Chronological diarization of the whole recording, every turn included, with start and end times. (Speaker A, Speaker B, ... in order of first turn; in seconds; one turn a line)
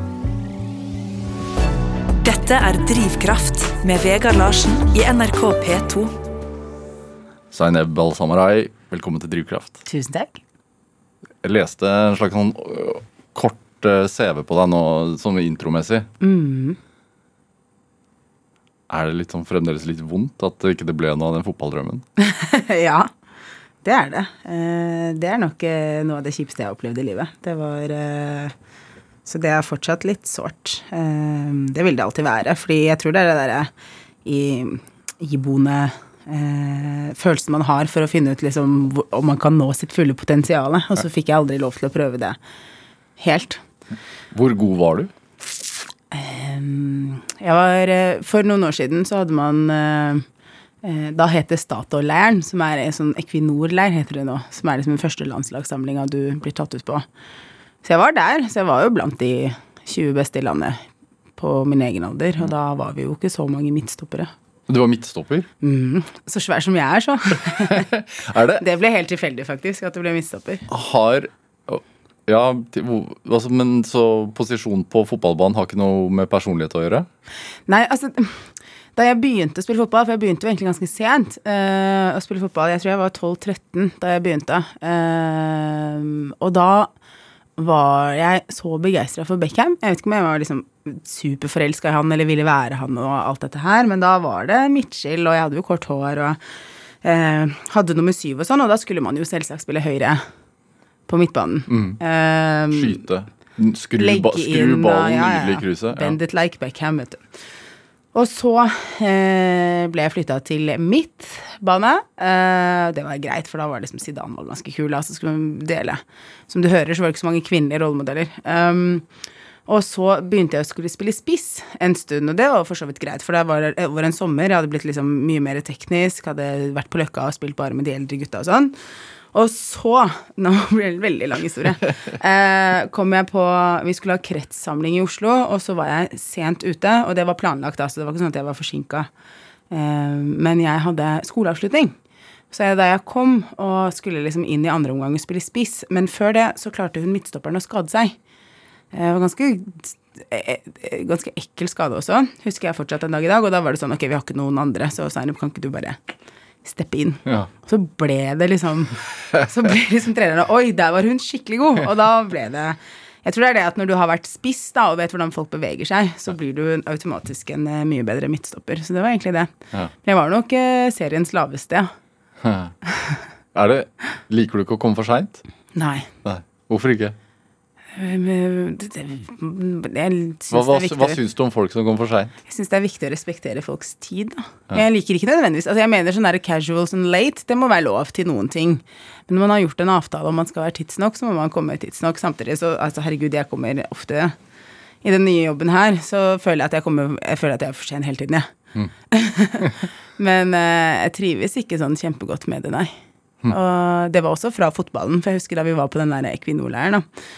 Speaker A: 2.2-6.1
Speaker B: 7.5-9.8
Speaker C: 9.8-10.4
Speaker B: 11.4-16.1
Speaker C: 16.2-16.8
Speaker B: 18.9-22.0
Speaker C: 22.2-23.1
Speaker C: 23.8-28.5
Speaker C: 29.3-33.7
Speaker C: 34.2-42.4
Speaker C: 43.2-43.6
Speaker B: 44.3-45.1
Speaker C: 46.1-50.2
Speaker C: 50.8-57.0
Speaker C: 57.8-60.8
Speaker C: 61.4-64.3
Speaker B: 64.7-65.5
Speaker C: 65.6-67.9
Speaker B: 67.7-68.6
Speaker C: 68.6-70.7
Speaker B: 70.7-77.1
Speaker C: 77.7-86.9
Speaker C: 87.6-96.4
Speaker C: 97.0-100.2
Speaker C: 101.1-103.0
Speaker B: 101.7-102.0
Speaker B: 102.7-106.2
Speaker C: 104.0-107.2
Speaker C: 108.1-119.1
Speaker C: 119.7-128.7
Speaker C: 129.3-139.1
Speaker C: 139.7-141.9
Speaker C: 142.5-148.2
Speaker C: 148.9-156.0
Speaker C: 156.6-169.5
Speaker C: 170.0-171.9
Speaker B: 172.4-172.7
Speaker B: 173.5-175.4
Speaker C: 175.8-176.1
Speaker B: 176.2-177.2
Speaker C: 178.0-181.2
Speaker B: 180.5-182.3
Speaker C: 182.5-194.3
Speaker C: 195.0-198.5
Speaker C: 199.1-202.9
Speaker C: 203.5-207.0